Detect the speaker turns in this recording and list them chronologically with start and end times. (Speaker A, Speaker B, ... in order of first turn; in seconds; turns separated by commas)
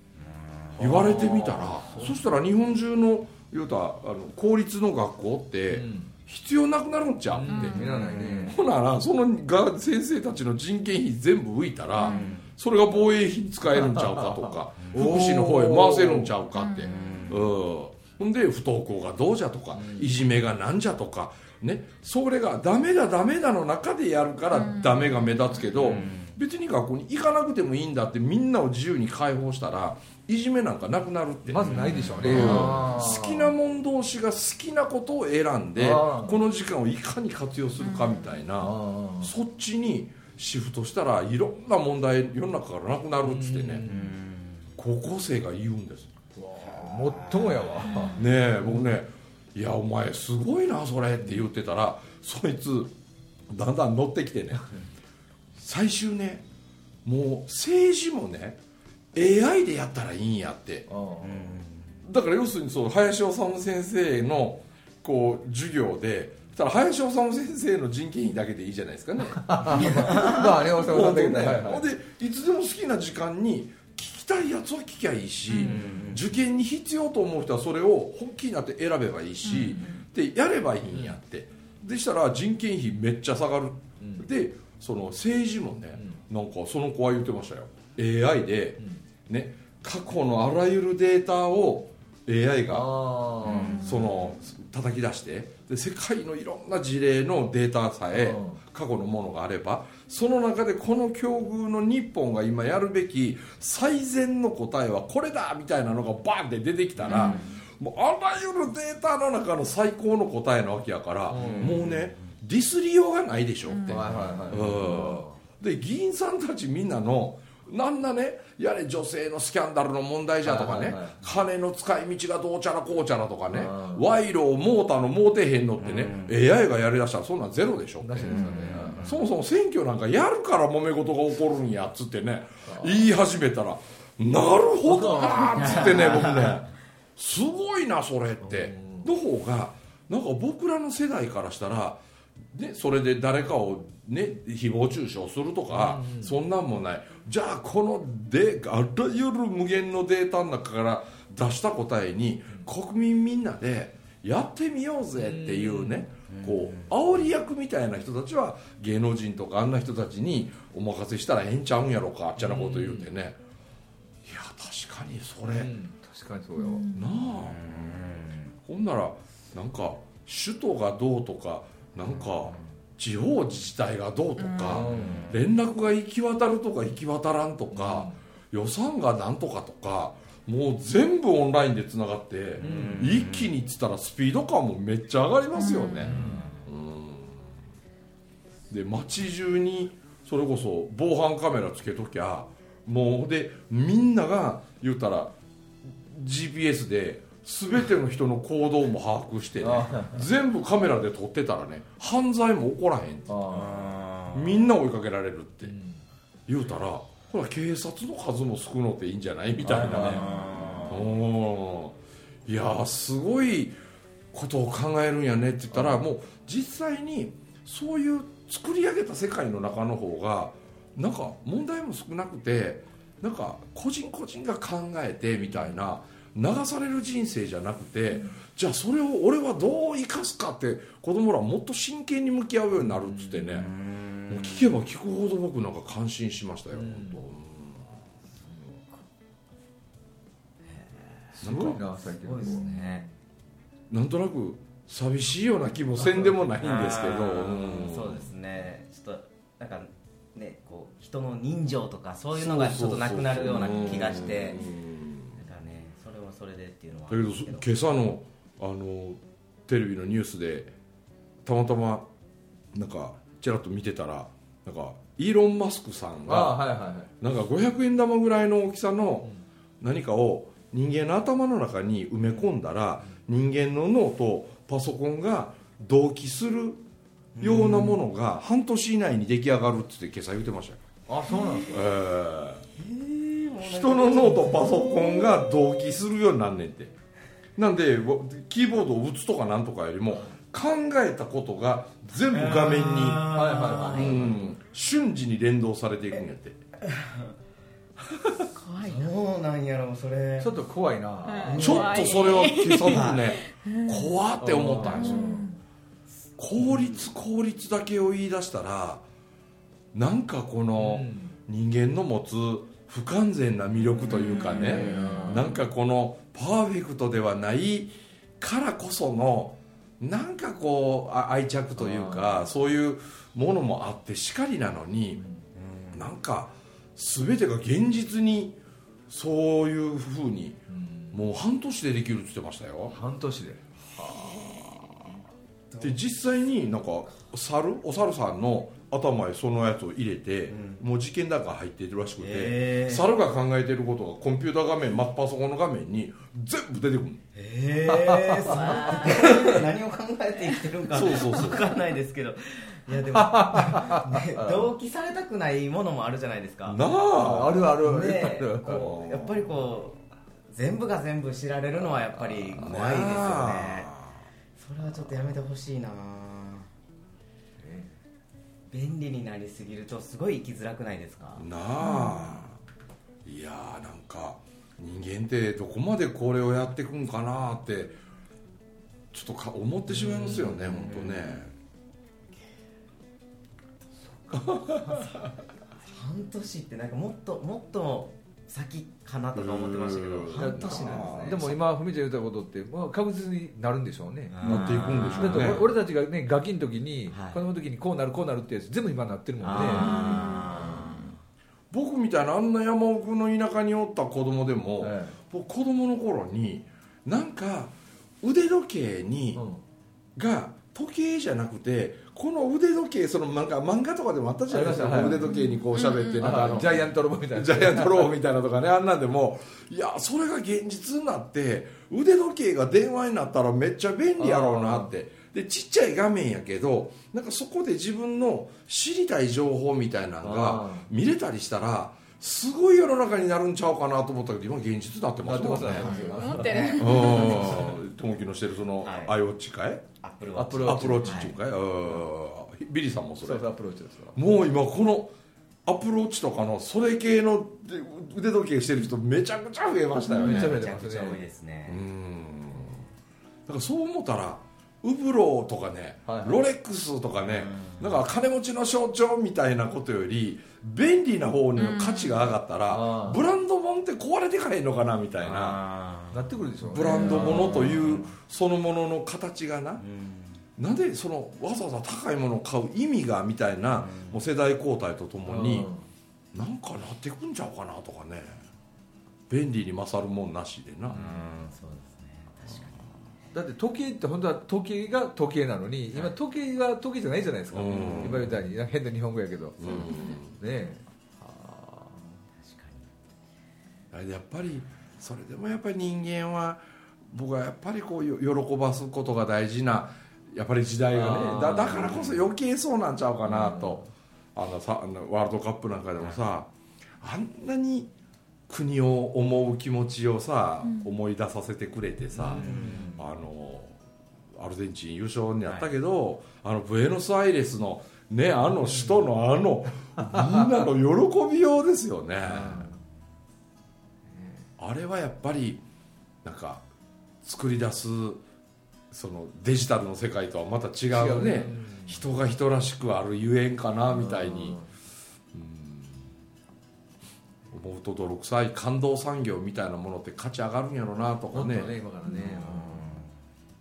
Speaker A: 0.8-2.2, Speaker B: 0.8-43.9, Speaker A: 5.7-6.1, Speaker A: 7.3-8.6, Speaker C: 7.5-8.0, Speaker C: 12.0-12.3, Speaker D: 12.1-12.4, Speaker A: 13.9-16.3, Speaker C: 16.5-17.4, Speaker D: 16.9-17.3, Speaker A: 19.7-20.2, Speaker C: 24.5-25.3, Speaker D: 25.9-26.3, Speaker A: 31.5-33.5, Speaker A: 35.8-36.4, Speaker C: 37.8-38.3, Speaker A: 38.6-39.3, Speaker A: 43.2-44.1, Speaker D: 43.9-44.6, Speaker B: 44.8-46.1, Speaker A: 46.4-48.9, Speaker D: 46.9-47.4, Speaker C: 47.9-48.2, Speaker B: 48.1-52.9, Speaker B: 53.5-54.7, Speaker B: 55.5-56.4, Speaker B: 57.0-58.6, Speaker B: 59.1-60.9, Speaker A: 60.9-61.5, Speaker D: 61.2-61.9, Speaker B: 62.0-142.0, Speaker A: 69.4-71.9, Speaker C: 75.5-75.8, Speaker D: 75.7-76.2, Speaker C: 79.5-79.9, Speaker A: 79.5-79.9, Speaker A: 84.0-84.3, Speaker A: 92.7-93.9, Speaker C: 93.5-94.0, Speaker A: 98.1-98.6, Speaker C: 107.0-107.5, Speaker D: 107.1-107.5, Speaker A: 111.3-111.8, Speaker D: 111.5-111.9, Speaker C: 113.7-114.1, Speaker A: 113.9-115.3, Speaker A: 120.4-121.2, Speaker A: 123.5-124.1, Speaker D: 125.9-126.3, Speaker A: 128.0-129.1, Speaker A: 132.7-133.1, Speaker A: 134.8-136.2, Speaker D: 135.5-136.6, Speaker A: 138.4-139.1, Speaker B: 142.5-163.4, Speaker A: 145.7-146.4, Speaker A: 155.2-156.1, Speaker D: 156.3-156.8, Speaker A: 162.4-163.1, Speaker B: 164.2-165.7, Speaker A: 165.4-167.0, Speaker C: 166.6-167.3, Speaker B: 166.9-168.0, Speaker D: 167.5-168.5, Speaker B: 168.6-187.5, Speaker C: 174.4-174.9, Speaker A: 174.6-175.3, Speaker A: 177.7-178.2, Speaker A: 182.6-183.2, Speaker D: 182.6-183.5, Speaker C: 185.6-186.1, Speaker A: 186.0-186.5, Speaker B: 188.7-195.3, Speaker B: 195.9-203.3, Speaker A: 199.6-200.2, Speaker A: 203.3-203.9, Speaker D: 203.5-204.5, Speaker B: 204.3-205.7, Speaker A: 205.6-206.0, Speaker B: 206.5-210.3, Speaker A: 209.6-210.8, Speaker D: 210.0-211.0, Speaker B: 210.8-213.8, Speaker B: 214.3-233.7, Speaker A: 232.8-233.7, Speaker D: 233.6-234.7, Speaker B: 234.3-237.8, Speaker A: 236.7-237.2, Speaker D: 240.7-241.1, Speaker A: 241.3-243.1, Speaker B: 241.4-241.8, Speaker D: 242.2-243.1, Speaker B: 243.9-248.3, Speaker A: 246.0-246.4, Speaker D: 246.6-254.6, Speaker B: 252.3-255.3, Speaker D: 255.3-257.6, Speaker B: 257.1-260.7, Speaker B: 261.4-262.1, Speaker B: 262.7-266.6, Speaker A: 266.3-267.1, Speaker B: 267.2-269.3, Speaker B: 269.8-276.8, Speaker D: 277.3-278.0, Speaker B: 277.4-280.8, Speaker A: 281.1-281.8, Speaker D: 281.3-281.7, Speaker B: 281.7-282.6, Speaker D: 282.8-285.9, Speaker B: 283.6-286.9, Speaker B: 287.6-293.3, Speaker D: 292.3-294.4, Speaker A: 293.3-294.4, Speaker B: 293.9-296.6, Speaker D: 296.8-297.3, Speaker C: 298.5-299.1, Speaker D: 298.8-300.6, Speaker A: 300.4-301.8, Speaker C: 301.2-304.1, Speaker D: 301.4-302.2, Speaker B: 301.6-305.4, Speaker D: 302.8-303.2, Speaker A: 304.4-305.4, Speaker C: 304.8-305.5, Speaker B: 306.4-309.0, Speaker B: 309.9-325.2, Speaker A: 310.8-311.4, Speaker C: 314.1-315.1, Speaker A: 314.4-315.6, Speaker A: 321.8-322.5, Speaker D: 325.5-326.1, Speaker B: 325.9-333.0, Speaker A: 330.7-331.2, Speaker A: 332.9-334.4, Speaker D: 335.7-336.0, Speaker B: 335.8-347.2, Speaker D: 340.5-340.8, Speaker D: 342.2-343.1, Speaker D: 347.3-356.8, Speaker A: 348.1-348.4, Speaker C: 348.4-349.5, Speaker B: 349.1-349.6, Speaker B: 350.9-351.6, Speaker A: 353.0-354.6, Speaker B: 356.6-357.7, Speaker A: 357.1-359.0, Speaker D: 357.8-363.9, Speaker B: 358.7-359.3, Speaker B: 362.6-364.1, Speaker D: 364.6-366.7, Speaker A: 367.6-367.9, Speaker D: 368.7-371.4, Speaker B: 371.4-372.6, Speaker C: 371.8-372.3, Speaker B: 373.2-378.0, Speaker B: 379.1-381.5, Speaker A: 380.0-380.6, Speaker D: 380.7-381.4, Speaker A: 384.3-384.5, Speaker B: 384.3-384.9, Speaker D: 384.8-385.2, Speaker D: 385.9-391.4, Speaker B: 389.3-391.6, Speaker A: 390.3-400.0, Speaker D: 394.3-395.6, Speaker B: 394.4-395.7, Speaker D: 397.1-397.4, Speaker D: 399.4-401.1, Speaker C: 399.5-401.1, Speaker B: 401.7-409.4, Speaker A: 404.8-405.2, Speaker A: 409.3-409.6, Speaker B: 410.1-436.0, Speaker A: 414.5-415.5, Speaker C: 415.1-416.4, Speaker A: 416.1-418.1, Speaker A: 424.2-424.9, Speaker A: 430.2-430.9, Speaker A: 435.2-437.7, Speaker D: 435.7-437.6, Speaker C: 435.9-437.5, Speaker B: 436.8-439.8, Speaker D: 438.8-439.1, Speaker D: 440.0-441.4, Speaker A: 440.4-441.3, Speaker B: 440.6-443.4, Speaker A: 443.2-444.2, Speaker B: 444.1-445.1, Speaker B: 445.6-450.7, Speaker A: 450.1-451.2, Speaker D: 450.2-451.8, Speaker B: 451.7-452.9, Speaker B: 453.5-465.6, Speaker A: 456.1-456.4, Speaker D: 457.4-457.8, Speaker C: 461.6-462.2, Speaker A: 462.7-463.2, Speaker D: 465.2-466.2, Speaker A: 466.1-468.0, Speaker B: 466.6-469.8, Speaker C: 467.1-467.3, Speaker D: 469.8-470.4, Speaker B: 470.6-475.7, Speaker D: 473.8-474.2, Speaker A: 475.2-475.9, Speaker B: 476.3-478.4, Speaker B: 479.3-481.1, Speaker D: 480.9-483.0, Speaker A: 483.3-492.2, Speaker B: 487.5-488.4, Speaker B: 489.6-490.4, Speaker D: 492.4-492.9, Speaker B: 493.9-503.8, Speaker A: 500.9-502.2, Speaker A: 503.2-503.9, Speaker B: 504.3-506.5, Speaker B: 507.0-507.9, Speaker B: 508.5-513.8, Speaker C: 510.6-510.9, Speaker A: 512.1-513.0, Speaker D: 512.3-512.9, Speaker B: 514.3-522.7, Speaker A: 522.2-522.8, Speaker A: 524.1-524.5, Speaker B: 524.6-525.6, Speaker B: 526.2-526.6, Speaker B: 527.2-528.2, Speaker B: 528.9-534.6, Speaker A: 530.9-532.1, Speaker A: 533.9-534.7, Speaker B: 535.3-536.1, Speaker B: 537.5-541.8, Speaker A: 541.3-543.0, Speaker D: 542.1-543.1